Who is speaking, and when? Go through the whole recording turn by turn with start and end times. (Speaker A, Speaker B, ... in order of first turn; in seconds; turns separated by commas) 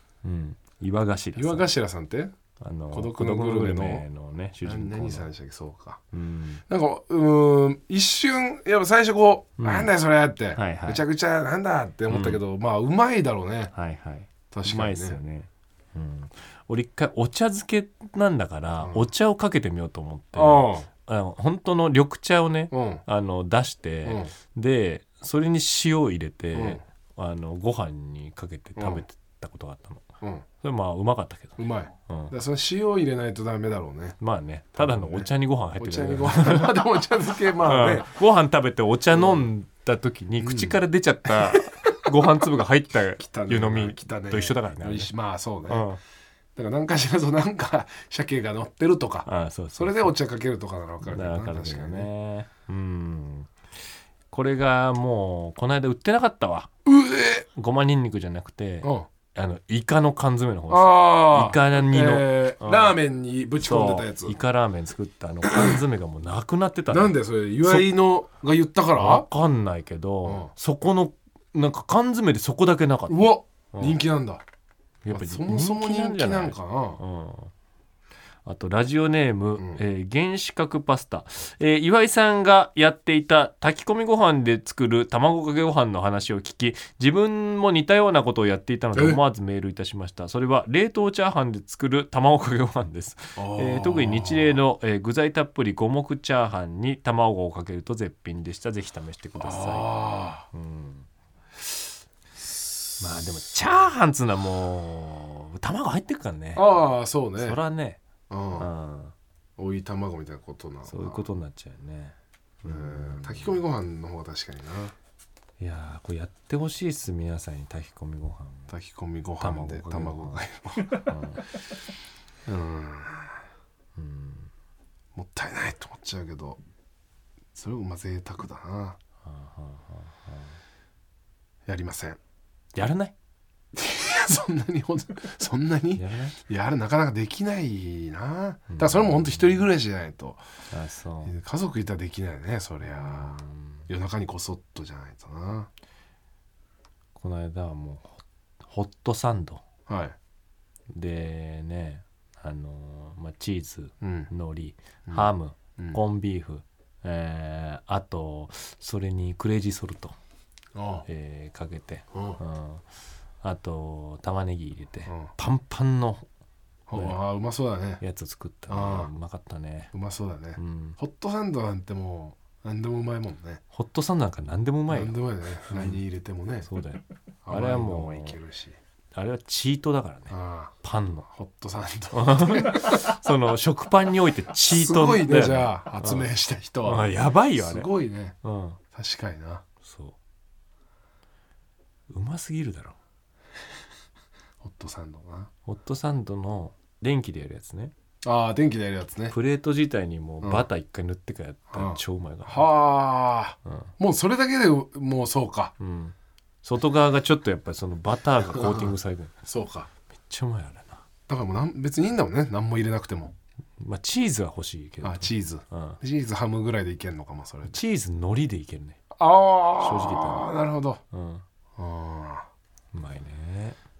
Speaker A: 0.2-1.7, Speaker B: 1.4-2.3, Speaker A: 2.6-5.2, Speaker B: 2.9-4.0, Speaker B: 4.6-6.0, Speaker A: 6.1-6.6, Speaker B: 6.7-13.7, Speaker A: 9.6-9.9, Speaker A: 10.5-11.0, Speaker A: 12.1-12.4, Speaker A: 13.7-30.1, Speaker B: 14.5-15.2, Speaker B: 18.8-19.1, Speaker B: 20.3-20.9, Speaker B: 22.7-23.0, Speaker B: 24.0-24.3, Speaker B: 26.5-26.8, Speaker B: 28.8-29.0, Speaker A: 30.6-32.3, Speaker B: 31.6-34.2, Speaker A: 34.2-36.8, Speaker B: 34.7-38.1, Speaker A: 37.5-45.1, Speaker B: 39.1-39.5, Speaker B: 40.4-42.4, Speaker B: 43.2-45.9, Speaker A: 45.7-46.0, Speaker B: 46.5-52.1, Speaker A: 49.2-50.1, Speaker A: 51.0-53.5, Speaker A: 54.3-56.7, Speaker B: 56.8-57.5, Speaker A: 57.5-63.0, Speaker B: 58.8-59.1, Speaker B: 60.7-64.4, Speaker A: 63.6-67.9, Speaker B: 65.4-65.8, Speaker B: 66.9-69.2, Speaker A: 68.9-74.0, Speaker B: 70.2-70.5, Speaker B: 73.1-74.4, Speaker A: 75.0-77.5, Speaker B: 75.1-77.0, Speaker A: 78.5-101.1, Speaker B: 88.9-89.2, Speaker B: 93.4-94.6, Speaker B: 99.4-100.5, Speaker B: 102.4-103.4, Speaker A: 103.0-106.8, Speaker B: 106.5-107.6, Speaker A: 107.4-108.0, Speaker B: 108.3-108.7, Speaker A: 108.6-109.1, Speaker B: 109.6-111.2, Speaker A: 110.9-113.6, Speaker B: 112.7-114.9, Speaker A: 115.6-118.7, Speaker B: 118.7-121.1, Speaker A: 119.4-121.5, Speaker B: 122.5-123.4, Speaker A: 124.0-124.5, Speaker B: 125.1-126.6, Speaker B: 127.5-129.0, Speaker A: 129.2-130.5, Speaker B: 131.7-132.2, Speaker A: 132.7-133.1, Speaker B: 133.7-140.4, Speaker A: 135.9-136.4, Speaker A: 138.7-139.7, Speaker A: 140.7-141.3, Speaker B: 141.2-145.7, Speaker A: 142.8-143.8, Speaker A: 147.2-149.6, Speaker B: 149.9-150.2, Speaker A: 150.9-160.2, Speaker B: 154.0-154.3, Speaker B: 155.1-156.0, Speaker B: 160.7-161.1, Speaker A: 161.1-162.8, Speaker B: 162.1-162.4, Speaker A: 163.4-166.3, Speaker B: 166.9-168.0, Speaker A: 166.9-167.2, Speaker A: 168.0-169.9, Speaker B: 168.7-169.1, Speaker B: 169.9-173.6, Speaker A: 170.6-171.0, Speaker A: 173.7-175.2, Speaker B: 174.9-176.7, Speaker A: 175.7-176.0, Speaker A: 176.6-178.4, Speaker B: 177.4-178.8, Speaker A: 179.1-181.3, Speaker B: 180.3-180.7, Speaker B: 181.3-183.2, Speaker A: 182.1-186.3, Speaker B: 184.7-188.4, Speaker A: 186.8-187.9, Speaker A: 188.4-188.8, Speaker B: 188.9-189.6, Speaker A: 189.8-190.2, Speaker A: 192.1-193.0, Speaker B: 194.6-195.5, Speaker A: 195.6-197.9, Speaker B: 198.2-199.3, Speaker A: 199.3-202.7, Speaker B: 200.4-200.7, Speaker B: 201.7-205.7, Speaker A: 205.8-209.4, Speaker B: 208.5-208.9, Speaker B: 209.4-209.9, Speaker A: 210.2-211.0, Speaker B: 211.3-213.3, Speaker A: 213.8-216.0, Speaker B: 215.0-217.8, Speaker A: 217.7-219.0, Speaker B: 219.1-221.0, Speaker A: 219.8-220.5, Speaker A: 221.1-221.4, Speaker B: 221.8-222.5, Speaker A: 222.9-223.8